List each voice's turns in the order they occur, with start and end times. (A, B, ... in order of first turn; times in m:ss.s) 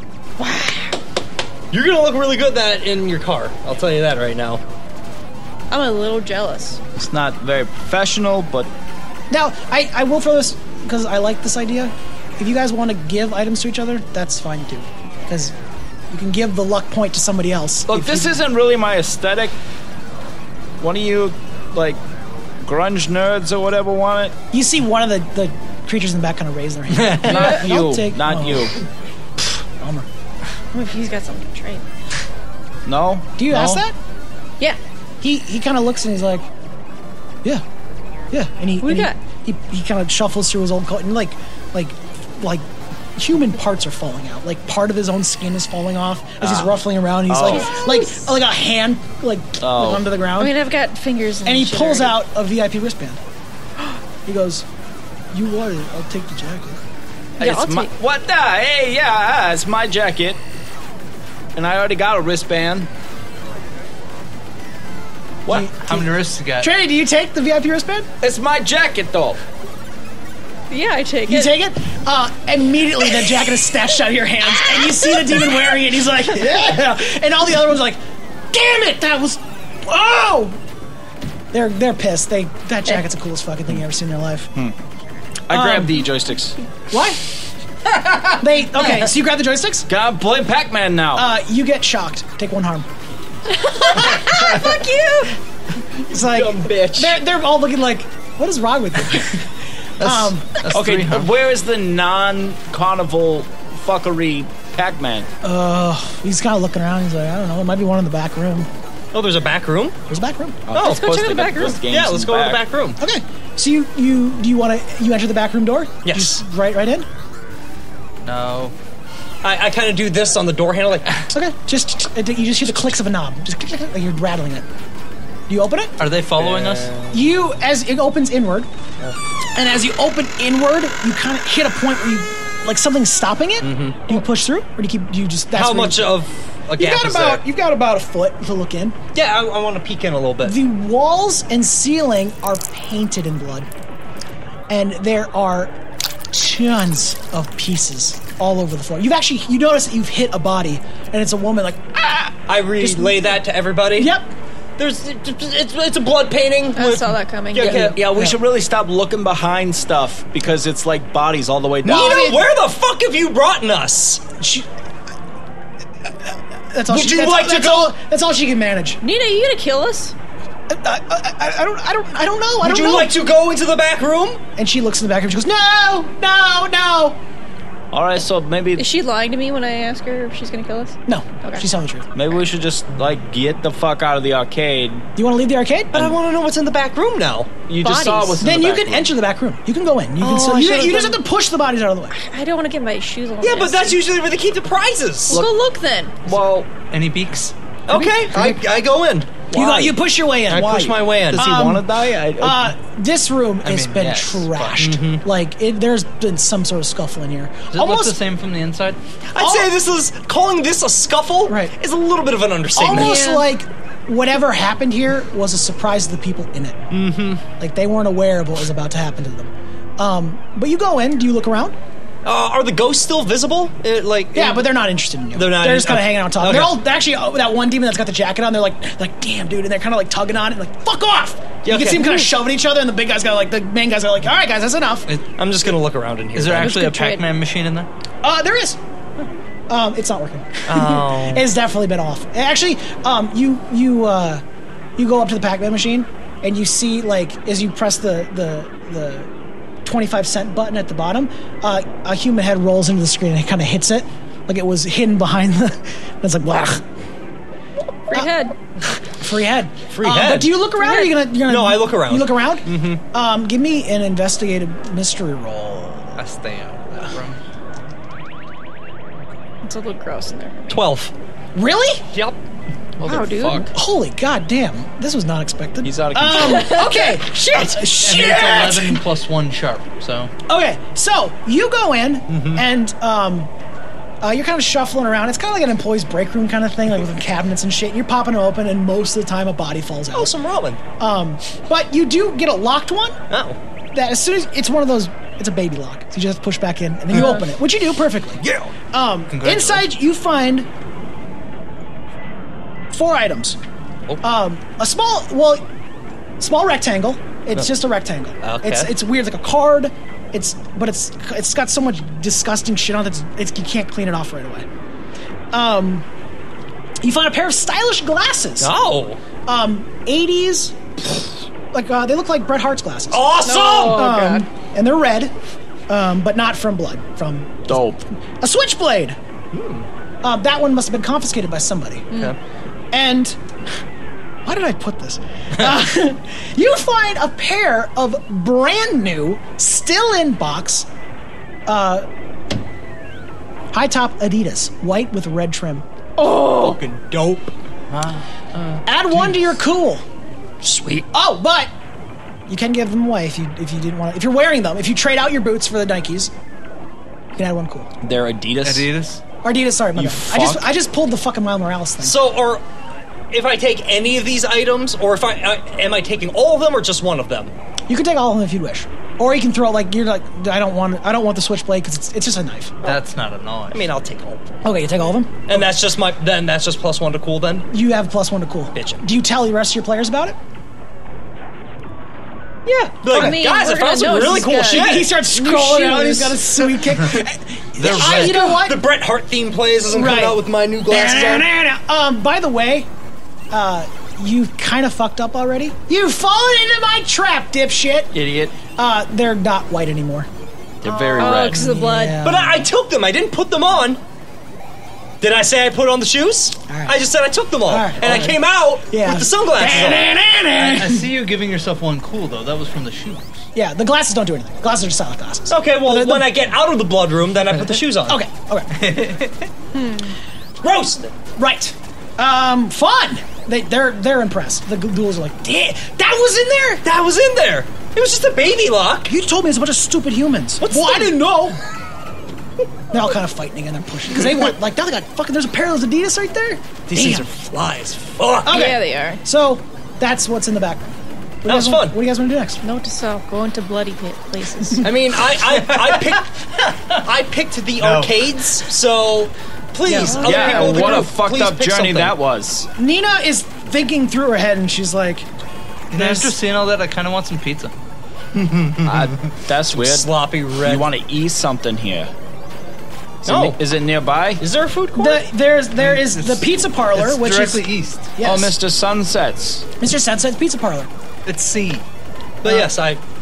0:00.4-0:00.9 A
0:01.7-0:04.6 B
0:05.7-0:06.8 A
0:07.0-0:08.7 C
0:09.3-0:15.5 D
0:16.1-0:18.4 D
0:17.9-0:19.5 C
0:20.8-0:22.0 C
0:22.6-0:24.3 C
0:24.5-0:28.7 D
0:26.9-0:27.4 E
0:27.2-0:28.7 C
0:29.8-0:30.0 D
0:30.7-0:31.8 A
0:32.8-0:33.3 C
0:33.4-0:34.0 D
0:33.5-0:33.8 E
0:35.2-0:36.5 D
0:38.3-0:50.5 D
0:38.8-0:39.2 A
0:46.4-0:46.7 C
0:47.3-0:47.7 C
0:47.4-0:48.3 A
0:49.6-0:50.0 C
0:50.4-0:52.2 A
0:51.4-0:53.2 D
0:54.2-0:54.6 D
0:55.3-0:56.8 D
0:57.4-1:00.4 C
0:57.4-0:57.9 A
1:01.5-1:02.9 C
1:05.5-1:08.1 D
1:05.5-1:06.7 E
1:08.2-1:09.4 C
1:10.7-1:11.6 A
1:11.3-1:18.0 D
1:18.5-1:20.6 D
1:21.5-1:24.5 D
1:25.5-1:26.6 C
1:25.5-1:26.0 D
1:26.9-1:27.2 D
1:28.3-1:29.9 D
1:29.9-1:31.3 C
1:31.1-1:32.9 D
1:33.5-1:35.3 A
1:34.0-1:34.8 D
1:36.0-1:40.6 D
1:36.3-1:37.1 B
1:40.0-1:41.3 E
1:40.7-1:45.3 C
1:45.4-1:48.7 D
1:49.1-1:50.0 B
1:50.1-1:50.6 D
1:50.7-1:52.6 C
1:50.7-1:53.0 B
1:50.8-1:51.8 A
1:53.0-1:57.1 D
1:56.0-1:56.4 B
1:58.2-1:58.7 E
1:59.4-2:01.1 B
2:01.3-2:04.7 D
2:05.5-2:05.9 D
2:06.0-2:06.9 E
2:06.4-2:07.2 B
2:07.1-2:08.7 D
2:09.5-2:16.2 D
2:13.6-2:14.2 B
2:15.5-2:17.4 B
2:16.8-2:19.0 D
2:19.1-2:20.6 B
2:20.4-2:23.7 D
2:24.7-2:25.7 D
2:26.3-2:33.3 D
2:32.5-2:34.2 B
2:34.0-2:34.3 D
2:34.8-2:38.0 B
2:36.8-2:37.9 A
2:37.6-2:42.3 C
2:37.7-2:38.4 D
2:41.8-2:42.4 D
2:41.8-2:44.3 B
2:44.4-2:44.7 D
2:46.0-2:49.0 D
2:46.9-2:47.9 B
2:49.0-2:50.1 A
2:50.7-2:53.1 D
2:52.6-2:54.4 B
2:54.6-2:57.2 D
2:57.9-2:58.9 C
2:58.8-3:01.6 A
3:01.0-3:02.1 D
3:02.1-3:05.0 C
3:05.2-3:06.1 D
3:05.9-3:07.5 B
3:07.7-3:08.8 C
3:07.8-3:08.4 A
3:08.4-3:12.1 D
3:08.4-3:09.0 E
3:10.2-3:11.2 B
3:12.1-3:14.0 A
3:13.4-3:15.4 B
3:15.3-3:16.2 A
3:16.2-3:16.7 C
3:16.3-3:17.5 E
3:17.9-3:19.9 B
3:17.9-3:18.6 D
3:19.5-3:28.2 D
3:20.5-3:21.4 B
3:21.3-3:22.7 C
3:23.6-3:25.0 E
3:24.8-3:25.2 B
3:27.7-3:29.0 E
3:29.3-3:33.2 B
3:29.4-3:29.7 D
3:31.5-3:31.7 D
3:32.8-3:36.9 D
3:32.9-3:33.5 A
3:36.9-3:37.4 B
3:37.5-3:41.7 D
3:42.2-3:44.7 B
3:44.3-3:55.1 D
3:45.3-3:46.8 B
3:51.6-3:52.2 B
3:55.4-3:56.8 B
3:56.3-3:57.9 E
3:56.6-3:57.2 A
3:58.2-3:58.8 D
3:59.7-4:04.4 D
4:00.7-4:01.4 B
4:05.0-4:09.3 D
4:09.8-4:16.8 D
4:18.1-4:18.6 A
4:18.9-4:26.2 D
4:19.9-4:20.5 B
4:20.8-4:21.2 A
4:21.4-4:23.0 B
4:26.2-4:27.4 E
4:29.6-4:30.7 A
4:30.7-4:31.1 B
4:31.5-4:32.0 D
4:32.1-4:32.4 B
4:33.0-4:33.7 C
4:33.0-4:33.7 A
4:33.7-4:39.0 D
4:35.8-4:36.8 C
4:36.3-4:37.5 A
4:37.9-4:40.3 E
4:40.5-4:43.5 D
4:44.2-4:50.3 D
4:50.1-4:50.8 B
4:51.0-4:53.2 D
4:53.3-4:53.6 B
4:53.9-5:00.7 D
4:58.4-4:58.7 B
4:59.3-4:59.9 E
5:02.9-5:03.6 D
5:04.2-5:05.6 D
5:06.4-5:14.6 D
5:08.4-5:08.9 B
5:15.5-5:16.0 D
5:17.0-5:18.7 D
5:18.6-5:19.2 B
5:19.4-5:25.3 D
5:23.1-5:24.1 B
5:23.4-5:24.5 A
5:25.9-5:27.8 D
5:27.7-5:28.0 C
5:28.4-5:29.2 D
5:29.5-5:29.9 B
5:30.2-5:32.2 D
5:32.9-5:33.4 D
5:34.4-5:40.9 D
5:41.7-5:42.0 D
5:43.7-5:45.8 D
5:46.2-5:46.8 A
5:46.4-5:47.5 B
5:47.9-5:49.5 E
5:48.8-5:50.0 D
5:50.6-5:51.0 B
5:51.1-5:51.7 D
5:52.5-5:56.3 D
5:57.3-5:57.9 D
5:58.0-5:58.8 C
5:58.6-5:59.2 E
5:59.4-6:02.2 D
6:00.0-6:00.6 C
6:02.0-6:02.6 B
6:03.3-6:07.5 B
6:07.9-6:12.8 D
6:12.8-6:13.8 E
6:13.7-6:14.4 B
6:14.6-6:15.6 D
6:15.4-6:17.6 B
6:17.7-6:20.4 D
6:18.7-6:19.0 B
6:22.6-6:25.2 B
6:23.1-6:26.3 A
6:23.1-6:23.4 D
6:24.2-6:28.8 D
6:27.8-6:28.6 E
6:28.0-6:31.5 B
6:29.9-6:32.9 D
6:33.5-6:38.1 D
6:38.1-6:38.5 C
6:38.8-6:40.3 D
6:40.8-6:41.6 C
6:40.9-6:42.2 A
6:41.2-6:42.7 D
6:42.2-6:44.0 B
6:45.2-6:50.1 B
6:46.7-6:47.0 D
6:47.7-6:51.1 D
6:50.6-6:53.4 E
6:53.5-6:56.3 D
6:55.5-6:58.2 B
6:58.0-6:58.8 D
6:58.7-6:59.5 E
6:59.8-7:00.1 A
7:00.6-7:01.1 B
7:01.4-7:06.8 D
7:06.8-7:09.1 B
7:09.1-7:11.6 D
7:10.6-7:11.2 B
7:12.9-7:17.3 D
7:16.9-7:18.6 B
7:18.4-7:20.8 D
7:18.4-7:19.2 A
7:21.4-7:22.0 B
7:21.4-7:22.6 D
7:22.6-7:24.9 A
7:24.8-7:26.3 B
7:25.3-7:26.9 E
7:26.9-7:32.2 B
7:27.8-7:28.3 E
7:29.8-7:31.0 D
7:30.0-7:30.5 A
7:30.1-7:32.7 C
7:32.8-7:35.3 D
7:35.9-7:37.7 E
7:35.9-7:36.3 D
7:38.3-7:38.9 B
7:38.8-7:42.1 C
7:39.7-7:40.9 B
7:43.2-7:44.4 C
7:43.2-7:43.6 B
7:44.4-7:45.2 B
7:45.0-7:47.6 D
7:45.8-7:48.1 E
7:48.2-7:48.6 D
7:48.2-7:49.6 C
7:49.8-7:50.9 D
7:51.2-7:51.8 E
7:52.4-7:53.0 B
7:52.4-7:52.7 D